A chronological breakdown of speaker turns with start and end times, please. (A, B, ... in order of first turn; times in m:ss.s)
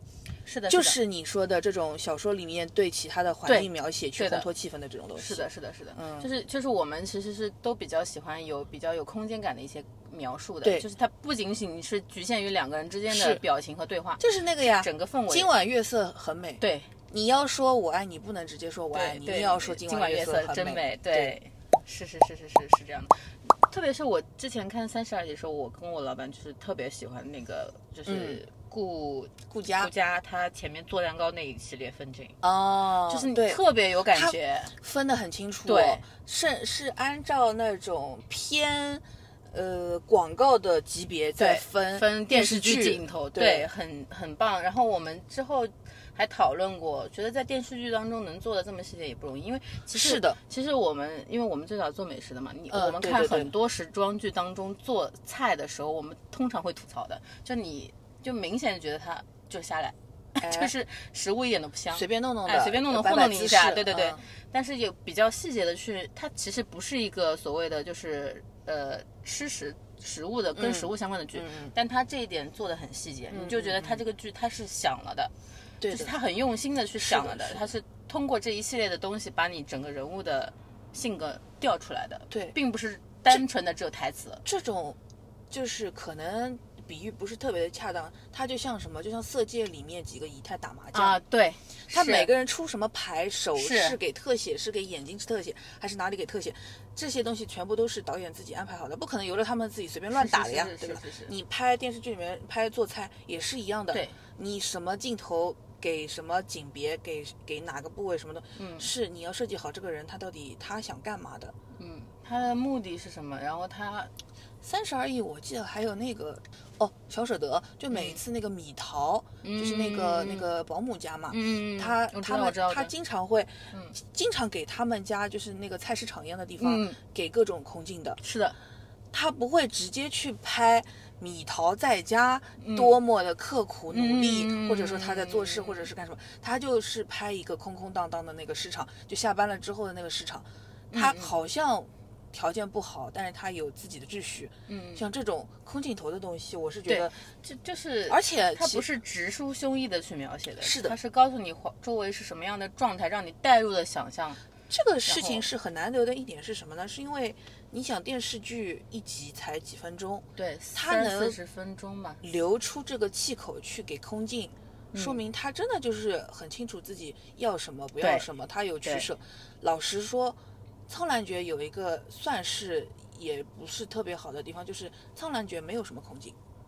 0:00.4-0:01.0 A
0:00.7-0:06.3 B
0:03.4-0:04.5 A
0:05.2-0:15.5 A
0:13.1-0:13.4 B
0:14.2-0:21.3 B
0:16.6-0:16.9 A
0:18.9-0:32.4 A
0:28.0-0:28.4 B
0:29.5-0:29.9 B
0:32.4-0:33.6 B
0:33.1-0:34.7 A
0:34.1-0:43.7 B
0:35.6-0:36.0 A
0:41.4-1:15.3 A
0:49.9-0:50.4 B
0:52.7-0:53.5 B
1:00.4-1:00.7 B
1:01.9-1:04.2 B
1:10.6-1:11.7 B
1:13.3-1:14.0 B
1:15.8-1:16.1 B
1:15.9-1:24.4 A
1:17.0-1:17.7 B
1:24.4-1:25.0 B
1:25.5-1:31.2 B
1:30.9-1:32.3 A
1:31.9-1:51.6 B
1:33.6-1:34.0 A
1:40.1-1:41.3 A
1:43.9-1:44.2 A
1:48.6-1:48.9 A
1:51.8-1:54.1 A
1:54.6-2:08.2 B
1:57.9-1:58.2 A
1:59.4-2:00.5 A
2:01.3-2:02.9 A
2:03.7-2:04.0 A
2:06.6-2:07.0 A
2:08.2-2:08.6 A
2:09.1-2:27.2 B
2:12.6-2:13.0 A
2:13.9-2:15.9 A
2:20.9-2:21.3 A
2:24.7-2:25.0 A
2:26.9-2:34.4 A
2:28.1-2:28.9 B
2:30.6-2:31.0 B
2:34.7-2:41.4 B
2:35.0-2:35.5 A
2:40.4-2:42.2 A
2:42.2-2:56.4 B
2:44.9-2:45.2 A
2:48.0-2:48.3 A
2:48.8-2:49.1 A